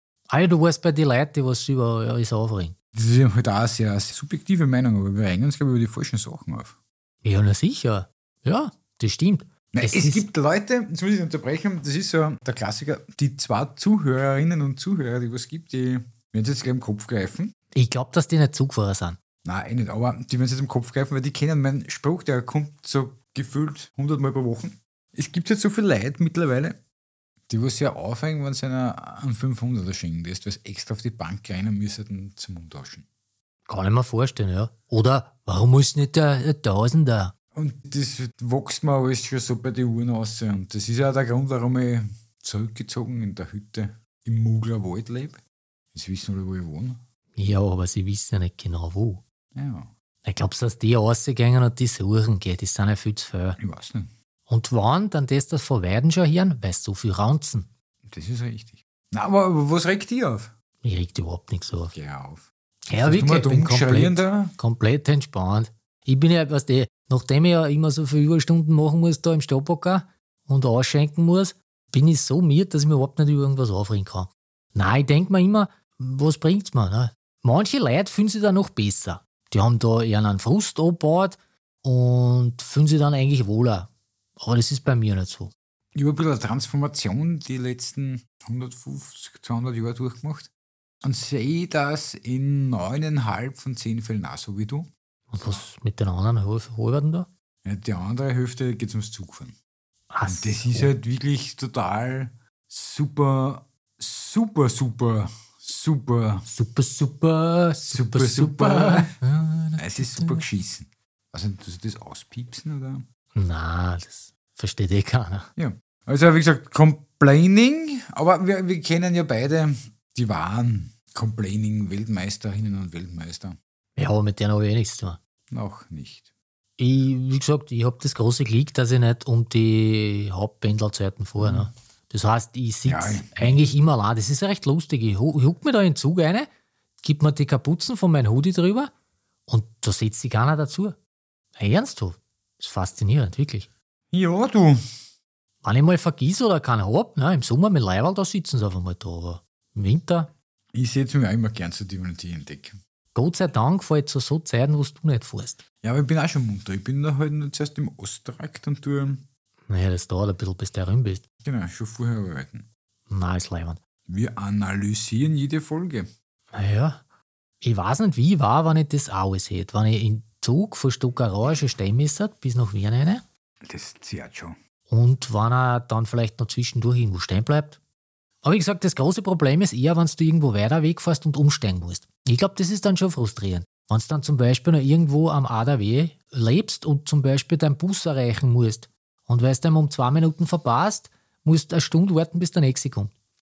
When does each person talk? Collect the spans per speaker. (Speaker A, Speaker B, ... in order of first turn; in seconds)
Speaker A: 0.3-2.7, 7.2-10.2, 17.7-19.2, 33.7-37.3, 47.4-49.2, 50.2-53.6, 54.5-57.7, 60.8-61.9, 62.9-85.5, 95.3-97.3, 100.1-100.9, 106.5-110.4, 113.3-115.5, 124.0-125.2, 126.8-136.5, 137.0-138.9, 139.5-140.9, 141.6-143.7, 145.6-150.3, 153.1-155.6, 159.7-161.2, 163.1-163.8, 166.5-167.0, 167.6-173.2, 174.9-177.8, 178.4-193.1
Speaker B: 2.9-6.8, 9.7-17.5, 19.4-26.8, 27.5-33.0, 37.5-45.4, 45.9-47.0, 49.5-49.9, 53.6-54.1, 58.0-60.5, 61.9-62.5, 63.0-64.5, 85.9-90.5, 91.0-94.9, 97.6-99.5, 100.3-106.5, 107.9-109.1, 109.8-113.0, 115.5-123.6, 125.5-126.3, 131.4-131.7, 132.8-133.6, 144.1-144.8, 150.7-152.8, 155.8-159.2, 161.4-162.7, 164.1-166.1, 173.7-174.6